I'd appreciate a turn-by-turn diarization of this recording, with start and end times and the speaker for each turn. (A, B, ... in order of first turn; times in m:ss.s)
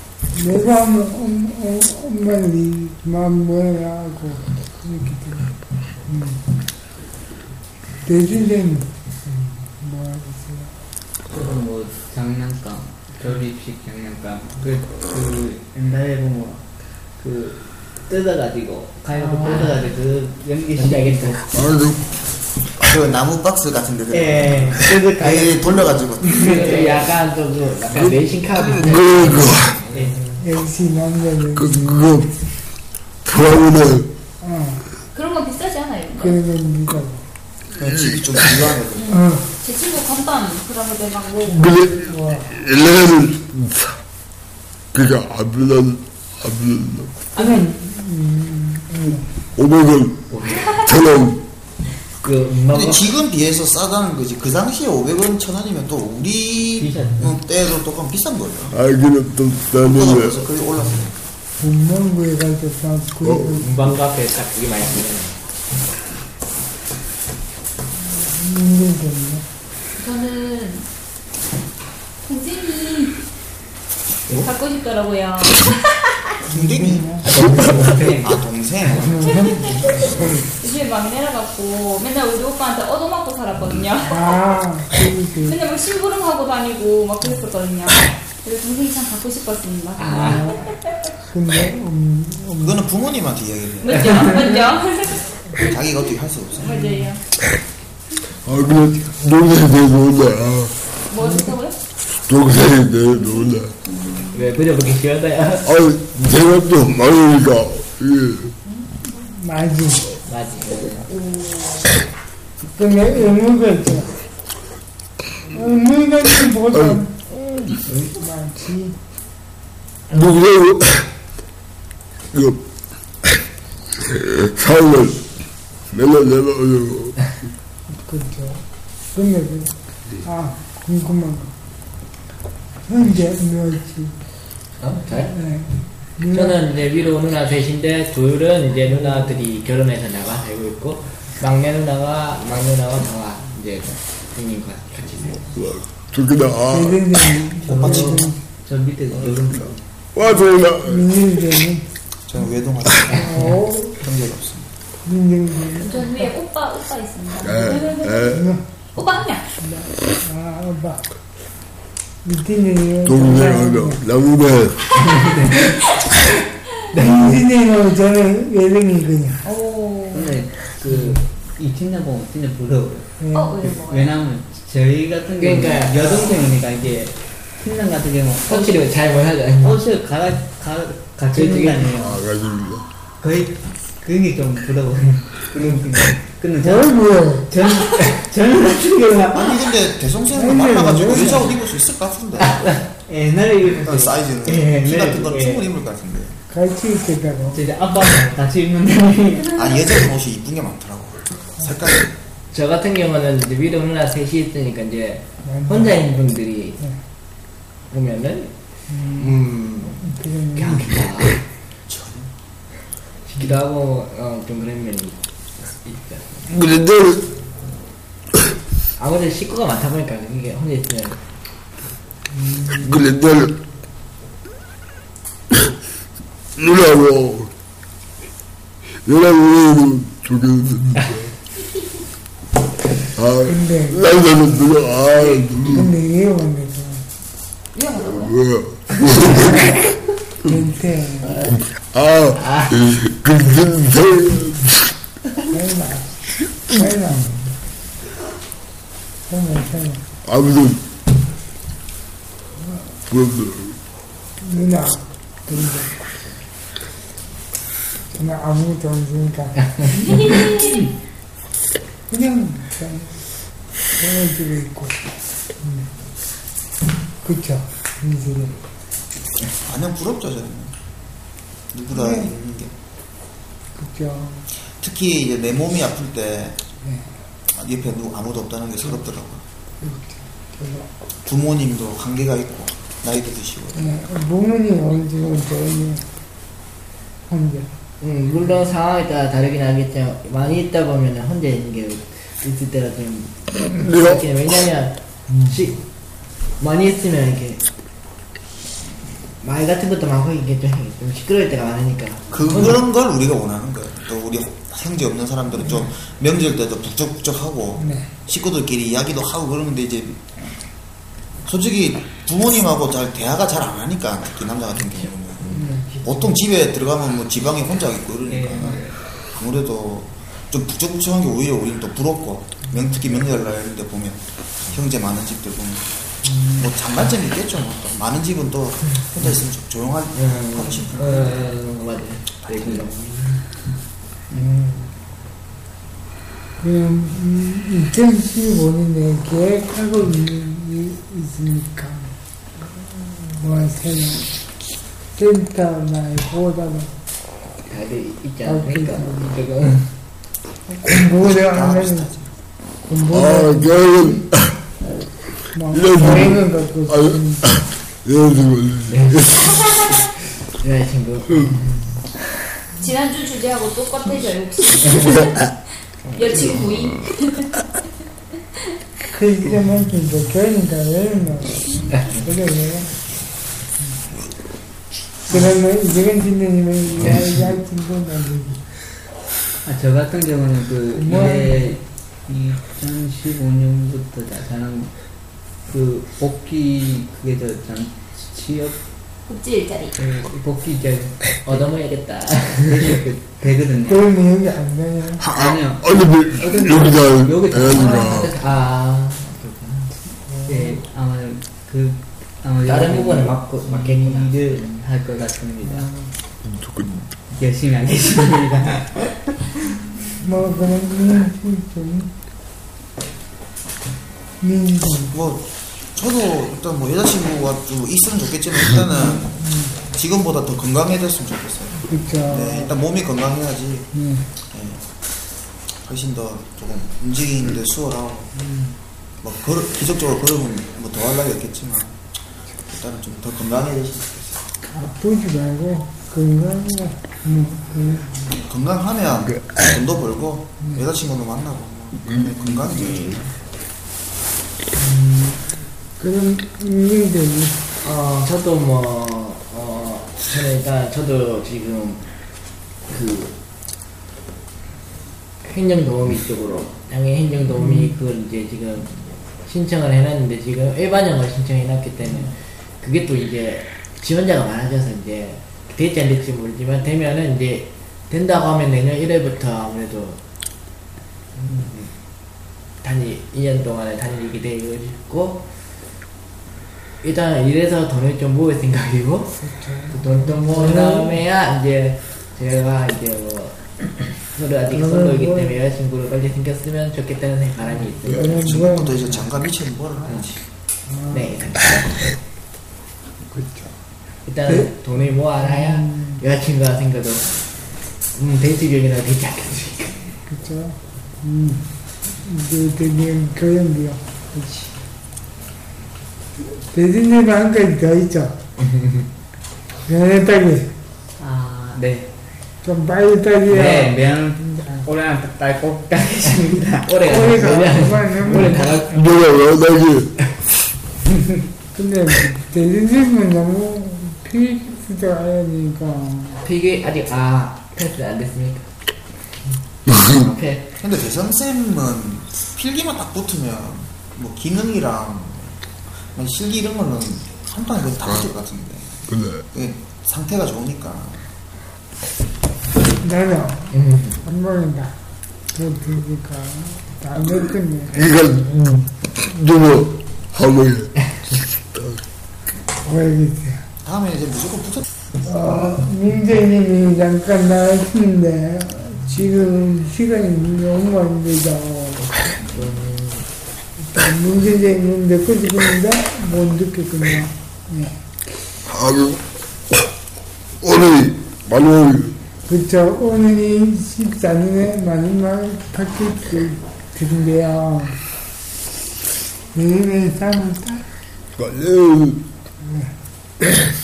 0:00.3-0:05.5 A
0:06.0-0:06.4 A
0:08.0-0:10.7 A
0:11.3-0:16.6 B
0:17.2-0:21.5 B
0:19.3-0:19.8 C
0:20.7-0:21.4 C
0:21.5-0:22.0 D
0:22.8-0:26.7 E
0:24.1-0:25.5 B
0:26.2-0:27.1 B
0:26.3-0:30.1 C
0:28.6-0:29.8 D
0:29.9-0:30.3 B
0:30.4-0:32.2 A
0:31.6-0:32.3 D
0:33.2-0:34.1 D
0:34.4-0:34.8 A
0:35.1-0:36.4 F
0:36.2-0:37.2 A
0:37.8-0:39.2 E
0:37.9-0:38.6 D
0:39.0-0:41.7 F
0:39.1-0:39.4 A
0:41.5-0:44.0 D
0:42.0-0:42.5 A
0:44.9-0:47.1 D
0:47.3-0:49.2 A
0:47.4-0:47.6 F
0:49.6-0:51.4 D
0:50.3-0:50.6 C
0:52.2-0:53.1 C
0:52.7-0:58.8 E
0:56.8-0:57.2 B
0:58.7-1:00.4 D
0:59.8-1:01.2 E
1:01.6-1:03.7 A
1:03.2-1:03.6 D
1:03.6-1:05.5 C
1:08.1-1:09.4 A
1:10.0-1:10.9 F
1:12.2-1:13.2 F
1:14.3-1:15.8 F
1:16.5-1:17.3 A
1:16.5-1:20.0 E
1:17.3-1:18.4 B
1:19.0-1:20.2 A
1:20.6-1:24.4 F
1:24.0-1:25.6 A
1:25.4-1:30.8 F
1:30.0-1:30.4 C
1:30.1-1:30.7 A
1:31.2-1:32.8 A
1:32.6-1:34.4 E
1:33.8-1:35.8 F
1:35.6-1:36.9 E
1:36.6-1:37.2 F
1:38.4-1:40.7 D
1:41.1-1:41.8 F
1:41.2-1:41.5 A
1:42.3-1:43.7 D
1:43.9-1:44.3 F
1:44.3-1:45.7 C
1:45.6-1:48.5 D
1:49.1-1:50.1 A
1:50.3-1:51.0 C
1:52.6-1:54.1 A
1:55.5-1:58.9 A
2:00.1-2:01.0 D
2:02.3-2:02.6 D
2:04.1-2:05.2 D
2:05.9-2:07.3 D
2:08.0-2:08.6 A
2:09.1-2:09.7 A
2:10.2-2:11.5 A
2:12.9-2:14.1 A
2:14.8-2:15.3 C
2:15.2-2:16.6 A
2:16.3-2:25.5 C
2:18.9-2:19.3 A
2:25.5-2:27.4 D
2:26.7-2:28.4 A
2:27.7-2:29.8 B
2:27.7-2:28.2 E
2:29.2-2:29.6 D
2:30.1-2:31.1 D
2:30.8-2:31.8 A
2:32.3-2:33.4 E
2:33.1-2:34.0 A
2:34.0-2:34.7 E
2:35.0-2:36.3 A
2:35.8-2:38.3 F
2:37.4-2:38.5 D
2:38.2-2:38.6 A
2:39.0-2:39.5 F
2:39.6-2:41.0 A
2:42.2-2:44.0 A
2:43.0-2:44.9 D
2:45.2-2:45.6 C
2:46.9-2:50.3 A
2:50.1-2:53.1 B
2:53.2-2:53.7 A
2:53.3-2:54.1 F
2:53.7-2:58.9 B
2:55.4-2:56.4 C
2:58.4-2:59.8 C
2:59.6-3:02.2 B
3:01.3-3:01.8 C
3:01.9-3:02.8 D
3:03.2-3:09.8 B
3:06.6-3:07.5 A
3:09.3-3:12.7 E
3:10.3-3:11.5 A
3:12.6-3:15.7 B
3:13.7-3:16.4 E
3:16.5-3:17.6 A
3:17.5-3:19.6 B
3:19.5-3:22.1 E
3:22.5-3:26.8 C
3:25.4-3:26.0 A
3:27.9-3:28.5 C
3:28.9-3:29.4 A
3:29.2-3:29.9 C
3:30.0-3:31.0 A
3:30.5-3:31.4 C
3:31.9-3:32.3 E
3:33.3-3:35.2 C
3:35.8-3:36.4 C
3:36.5-3:37.3 D
3:39.0-3:41.2 C
3:42.4-3:42.9 A
3:42.8-3:43.6 D
3:46.6-3:47.5 D
3:49.0-3:51.3 D
3:53.2-3:55.9 D
3:53.4-3:54.0 A
3:55.6-3:57.0 A
3:57.7-3:58.4 F
3:58.1-3:59.7 D
4:00.4-4:01.5 A
4:01.5-4:04.9 D
4:02.4-4:02.7 C
4:05.5-4:06.1 A
4:06.7-4:07.5 A
4:09.3-4:10.0 A
4:10.2-4:10.8 D
4:13.1-4:13.8 D
4:14.4-4:16.0 A
4:18.1-4:20.5 A
4:20.0-4:20.9 F
4:22.1-4:23.2 A
4:24.0-4:25.9 A
4:27.2-4:28.6 A
4:29.6-4:30.7 E
4:31.7-4:32.7 E
4:31.9-4:32.3 A
4:33.8-4:34.4 A
4:34.7-4:36.6 E
4:36.8-4:37.1 A
4:37.5-4:39.4 E
4:39.8-4:40.9 A
4:41.2-4:43.8 E
4:43.7-4:46.0 A
4:47.3-4:47.7 A
4:48.0-4:55.8 C
4:53.7-4:54.3 D
4:56.6-4:57.6 C
4:59.4-5:02.8 C
5:02.3-5:10.2 E
5:07.8-5:08.1 A
5:11.4-5:18.8 E
5:15.5-5:15.9 A
5:18.3-5:19.0 B
5:19.3-5:25.8 E
5:26.2-5:26.7 A
5:26.6-5:31.4 E
5:30.1-5:33.4 C
5:32.4-5:32.8 E
5:34.3-5:34.9 A
5:36.6-5:42.1 A
5:43.0-5:44.3 A
5:45.1-5:46.9 A
5:47.7-5:49.9 C
5:48.4-5:49.3 A
5:50.7-5:52.1 A
5:51.1-5:52.3 E
5:52.9-5:54.2 A
5:53.1-5:54.6 D
5:55.5-5:57.4 A
5:55.7-5:59.6 D
5:58.9-5:59.3 C
6:00.6-6:01.8 C
6:01.3-6:01.6 D
6:02.8-6:05.5 F
6:06.1-6:07.5 F
6:09.1-6:12.9 A
6:15.3-6:18.6 A
6:19.6-6:24.9 B
6:20.9-6:21.8 A
6:25.6-6:28.8 B
6:29.3-6:30.0 F
6:30.0-6:31.2 B
6:31.4-6:33.0 C
6:32.6-6:34.1 B
6:33.9-6:35.2 A
6:35.2-6:38.3 D
6:35.3-6:35.8 B
6:36.4-6:38.2 B
6:37.7-6:39.9 C
6:40.3-6:40.8 A
6:40.5-6:45.9 B
6:42.6-6:44.6 C
6:45.6-6:46.1 A
6:46.4-6:47.0 D
6:47.3-6:49.1 B
6:50.2-6:52.1 A
6:54.4-6:55.1 A
6:55.1-7:03.9 E
6:59.4-6:59.7 A
7:01.9-7:02.7 A
7:03.9-7:04.3 A
7:04.5-7:04.8 E
7:05.8-7:08.3 E
7:08.4-7:08.7 A
7:09.2-7:12.0 E
7:12.6-7:14.4 E
7:14.7-7:18.4 A
7:18.4-7:23.2 E
7:19.3-7:19.7 D
7:22.1-7:23.2 D
7:24.8-7:25.4 A
7:26.0-7:27.7 A
7:27.8-7:32.0 C
7:32.9-7:33.3 C
7:35.4-7:50.2 C
7:37.6-7:37.9 A
7:51.4-7:51.9 C
7:52.8-7:55.4 C
7:57.0-7:59.3 C
7:59.3-8:01.2 A
7:59.9-8:03.6 C
8:04.3-8:08.4 C
8:04.7-8:05.6 A
8:08.0-8:09.0 A
8:08.1-8:10.4 E
8:10.9-8:11.4 A
8:11.1-8:12.1 C
8:13.3-8:13.7 A
8:14.2-8:17.3 C
8:15.4-8:16.2 A
8:18.1-8:20.1 C
8:20.3-8:21.6 A
8:22.2-8:24.7 A
8:26.4-8:28.4 A
8:28.6-8:29.0 C
8:29.8-8:30.7 A
8:31.2-8:32.1 B
8:32.6-8:34.9 A
8:33.5-8:37.3 B
8:36.8-8:38.9 C
8:37.0-8:38.6 A
8:38.9-8:40.1 D
8:41.7-8:46.4 A
8:46.4-8:48.6 C
8:49.9-8:50.2 D
8:50.0-8:50.6 C
8:50.8-8:55.6 E
8:56.1-8:59.0 E
8:59.1-8:59.4 D
8:59.5-9:01.2 E
9:03.0-9:05.0 A
9:03.7-9:04.2 C
9:05.5-9:07.9 A
9:07.9-9:12.0 D
9:12.8-9:13.6 A
9:13.8-9:14.8 E
9:15.2-9:22.0 A
9:22.0-9:23.2 C
9:23.8-9:28.0 A
9:28.7-9:29.2 D
9:30.6-9:32.2 D
9:32.5-9:38.0 A
9:39.5-9:40.8 A
9:41.4-9:42.3 D
9:42.6-9:42.9 A